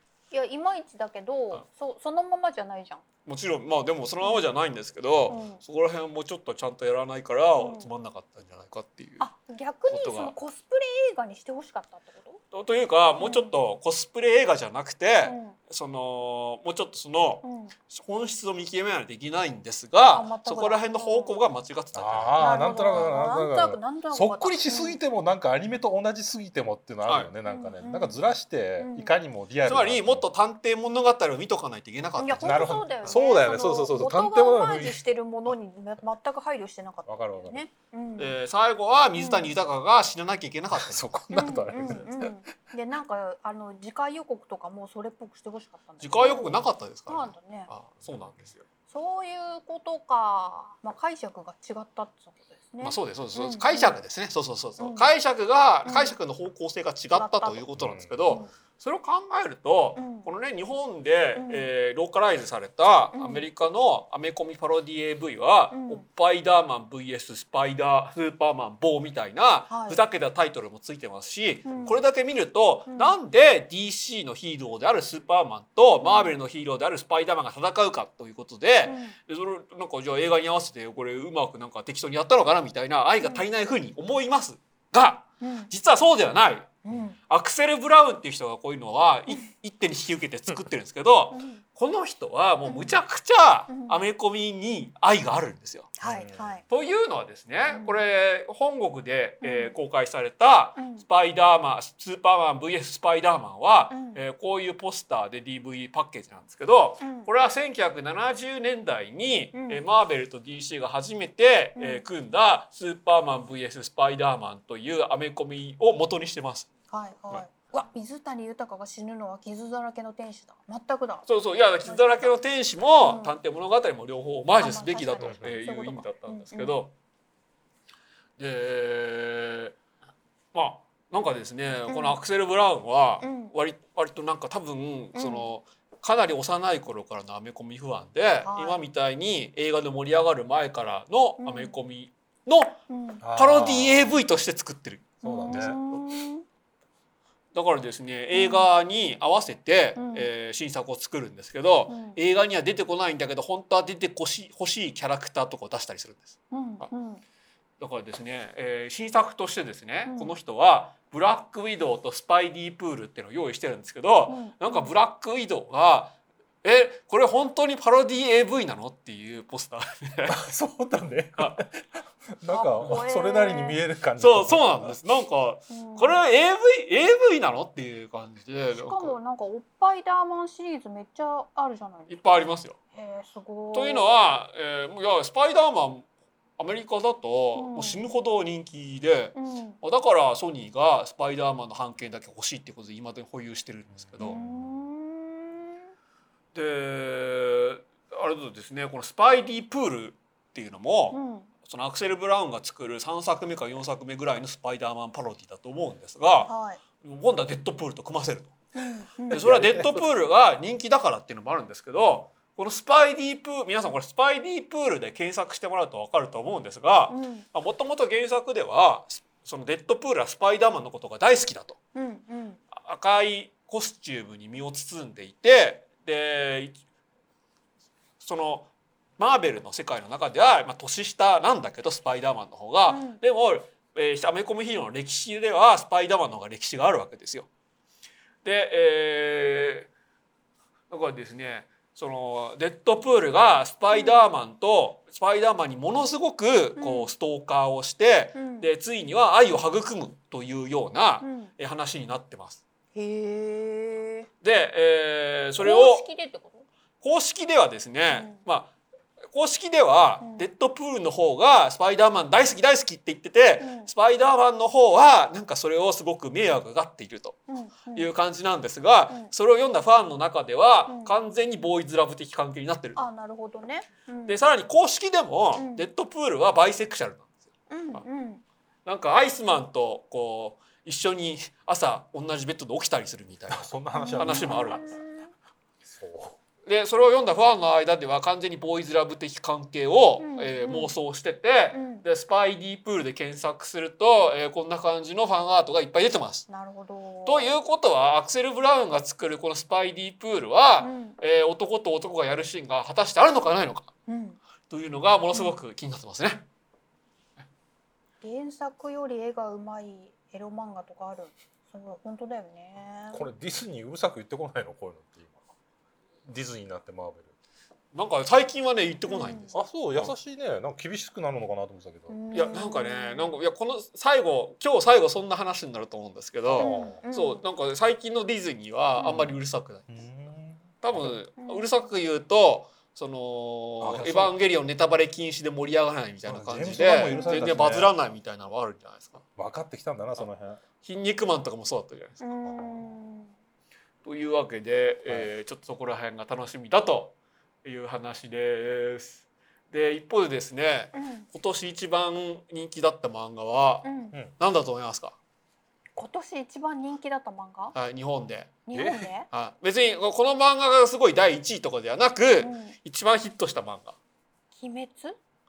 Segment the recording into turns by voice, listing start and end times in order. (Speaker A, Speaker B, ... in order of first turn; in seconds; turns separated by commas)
Speaker A: 0.3-3.0, Speaker B: 3.3-9.3, Speaker A: 4.2-4.5, Speaker A: 5.3-5.6, Speaker A: 7.6-7.9, Speaker A: 9.2-12.4, Speaker B: 9.9-10.3, Speaker B: 12.5-23.1, Speaker A: 13.2-13.6, Speaker A: 15.2-15.6, Speaker A: 17.4-17.8, Speaker A: 20.1-21.4, Speaker C: 21.9-30.3, Speaker A: 22.4-25.0, Speaker A: 27.5-28.2, Speaker A: 28.8-29.1, Speaker B: 29.7-33.2, Speaker A: 32.2-38.4, Speaker C: 32.4-35.0, Speaker C: 37.1-37.6, Speaker B: 38.2-41.1, Speaker A: 39.2-39.5, Speaker C: 40.7-42.3, Speaker A: 41.3-47.7, Speaker B: 46.0-48.6, Speaker A: 48.9-54.0, Speaker B: 52.8-95.9, Speaker A: 54.8-55.1, Speaker A: 55.9-56.2, Speaker A: 57.1-57.6, Speaker C: 57.8-58.5, Speaker A: 60.0-60.3, Speaker A: 61.4-61.7, Speaker A: 63.1-63.5, Speaker A: 65.7-66.0, Speaker A: 69.7-70.0, Speaker A: 71.7-72.0, Speaker A: 72.9-73.2, Speaker A: 76.0-76.4, Speaker A: 78.8-79.1, Speaker A: 85.4-85.7, Speaker A: 86.8-87.2, Speaker A: 91.3-91.6, Speaker A: 92.6-93.0, Speaker A: 93.7-94.0, Speaker A: 96.0-96.6, Speaker C: 96.0-96.6, Speaker B: 96.7-116.7, Speaker A: 97.7-98.0, Speaker A: 99.4-99.8, Speaker A: 100.8-101.0, Speaker A: 103.9-104.2, Speaker A: 107.0-107.3, Speaker A: 109.5-109.8, Speaker A: 111.8-112.0, Speaker A: 116.9-121.3, Speaker B: 121.3-126.9, Speaker A: 121.8-122.4, Speaker A: 123.0-123.3, Speaker A: 124.6-126.8, Speaker C: 125.2-125.5, Speaker B: 128.4-129.8, Speaker B: 130.5-142.8, Speaker A: 131.9-132.2, Speaker A: 133.2-133.5, Speaker A: 135.2-135.5, Speaker A: 138.4-138.8, Speaker A: 141.4-141.8, Speaker A: 142.9-143.2, Speaker C: 143.2-144.2, Speaker B: 143.3-146.0, Speaker A: 145.2-146.4, Speaker C: 145.2-145.8, Speaker B: 147.5-156.9, Speaker A: 148.3-148.7, Speaker A: 150.0-150.3, Speaker A: 151.9-152.2, Speaker A: 156.5-157.2, Speaker B: 157.8-170.4, Speaker A: 160.1-160.3, Speaker A: 164.3-164.9, Speaker C: 170.3-171.7, Speaker B: 171.4-171.6, Speaker C: 172.4-174.9, Speaker A: 172.5-173.8, Speaker B: 174.2-179.2, Speaker A: 175.7-176.2, Speaker A: 178.8-182.2, Speaker B: 182.1-182.8, Speaker A: 182.9-184.1, Speaker B: 183.7-186.1, Speaker B: 186.6-194.4, Speaker A: 187.6-188.0, Speaker A: 189.3-189.8, Speaker C: 194.2-194.8, Speaker A: 194.2-195.8, Speaker B: 196.5-206.5, Speaker A: 201.1-201.5, Speaker A: 206.4-206.8, Speaker B: 207.0-208.5, Speaker A: 208.8-209.5, Speaker B: 209.3-221.8, Speaker C: 209.3-210.1, Speaker C: 212.0-212.2, Speaker A: 217.1-217.4, Speaker A: 221.9-222.6, Speaker B: 222.7-226.8, Speaker B: 228.2-237.5, Speaker A: 232.9-233.2, Speaker B: 238.4-239.9, Speaker B: 240.9-252.6, Speaker A: 243.9-244.4, Speaker A: 246.8-247.1, Speaker A: 248.4-248.7, Speaker A: 251.2-251.5, Speaker A: 252.9-254.3, Speaker B: 254.4-256.1, Speaker A: 255.6-256.7, Speaker B: 257.0-258.7, Speaker A: 258.1-258.4, Speaker B: 259.3-267.4, Speaker A: 260.2-260.5, Speaker A: 263.6-263.9, Speaker A: 267.5-268.1, Speaker B: 267.9-273.0, Speaker A: 270.9-271.1, Speaker A: 273.0-274.4, Speaker B: 274.3-277.3, Speaker A: 275.6-275.9, Speaker A: 277.7-278.4, Speaker B: 278.9-284.9, Speaker C: 283.5-284.8, Speaker A: 283.9-285.3, Speaker C: 285.8-286.4, Speaker B: 286.7-296.5, Speaker A: 290.2-290.9, Speaker A: 291.7-292.1, Speaker A: 296.5-297.5, Speaker B: 297.3-303.9, Speaker A: 300.8-301.2, Speaker A: 304.1-304.4, Speaker B: 304.7-306.5, Speaker A: 308.2-313.3, Speaker C: 313.1-315.4, Speaker C: 316.2-317.3, Speaker B: 317.9-320.1, Speaker A: 319.1-319.6, Speaker C: 319.5-322.2, Speaker A: 322.1-323.4, Speaker B: 322.3-329.9, Speaker C: 326.5-327.0, Speaker A: 326.6-327.4, Speaker A: 329.0-329.3, Speaker C: 329.0-329.4, Speaker C: 329.9-331.1, Speaker B: 330.8-339.2, Speaker A: 331.4-331.7, Speaker C: 333.8-334.4, Speaker C: 336.3-337.9, Speaker A: 337.1-337.6, Speaker C: 339.4-340.6, Speaker B: 340.8-342.2, Speaker A: 342.2-343.3, Speaker C: 342.5-342.8, Speaker B: 344.0-355.2, Speaker A: 350.9-351.3, Speaker A: 353.8-354.1, Speaker A: 356.0-357.8, Speaker B: 357.7-358.6, Speaker A: 358.7-359.3, Speaker C: 358.7-359.1, Speaker B: 359.3-364.0, Speaker A: 362.4-362.8, Speaker A: 364.6-365.2